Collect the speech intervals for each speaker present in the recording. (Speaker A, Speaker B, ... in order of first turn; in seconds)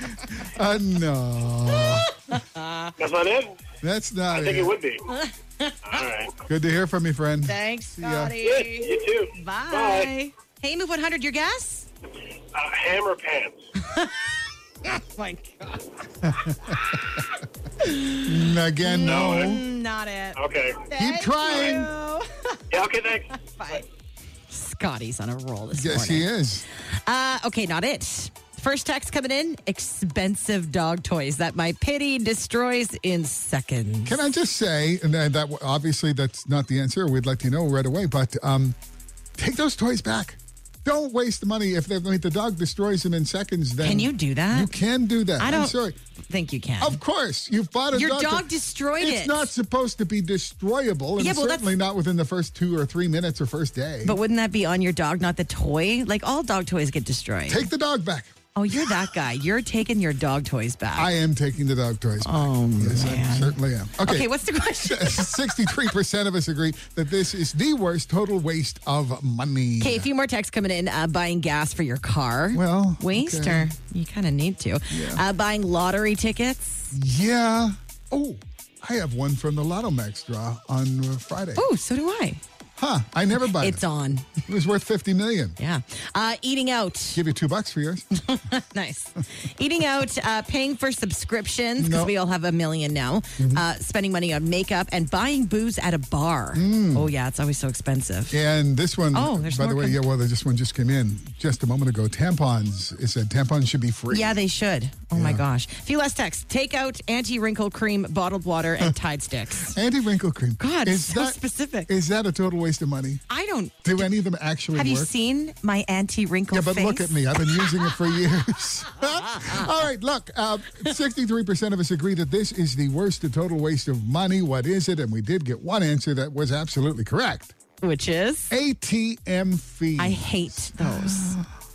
Speaker A: 0.3-2.1, 3.8-4.8, 6.5-8.4, 16.2-16.8, 18.2-19.6, 20.9-21.9, 25.7-26.6, 34.1-38.8, 39.4-46.0, 46.8-54.2, 57.5-59.1, 61.0-70.1, 72.5-73.7, 74.9-75.2, 76.9-81.7, 82.8-83.8, 84.5-85.6, 87.1-88.1, 91.8-92.1, 96.5-97.1, 98.3-104.4, 105.1-105.4, 109.7-113.2, 113.8-115.1, 116.5-127.5, 128.5-131.5
Speaker B: 2.3-2.9, 5.1-5.8, 7.5-11.9, 13.8-14.2, 14.9-15.8, 17.8-22.6, 23.3-23.9, 24.5-26.3, 26.9-34.2, 43.8-44.7, 45.4-45.8, 46.3-47.0, 47.9-49.5, 51.2-51.7, 54.0-57.7, 58.5-61.1, 62.2-65.7, 69.8-76.9, 81.6-82.4, 83.6-84.4, 85.6-87.2, 88.2-98.4, 99.1-100.0, 104.1-109.8, 110.6-111.9, 113.3-114.1, 114.7-117.2, 119.3-119.6, 127.8-128.5, 130.0-131.4
Speaker C: 3.0-3.5, 4.3-5.1, 5.9-6.4, 8.4-10.1, 12.5-13.7, 19.0-19.6, 20.4-20.8, 22.7-23.8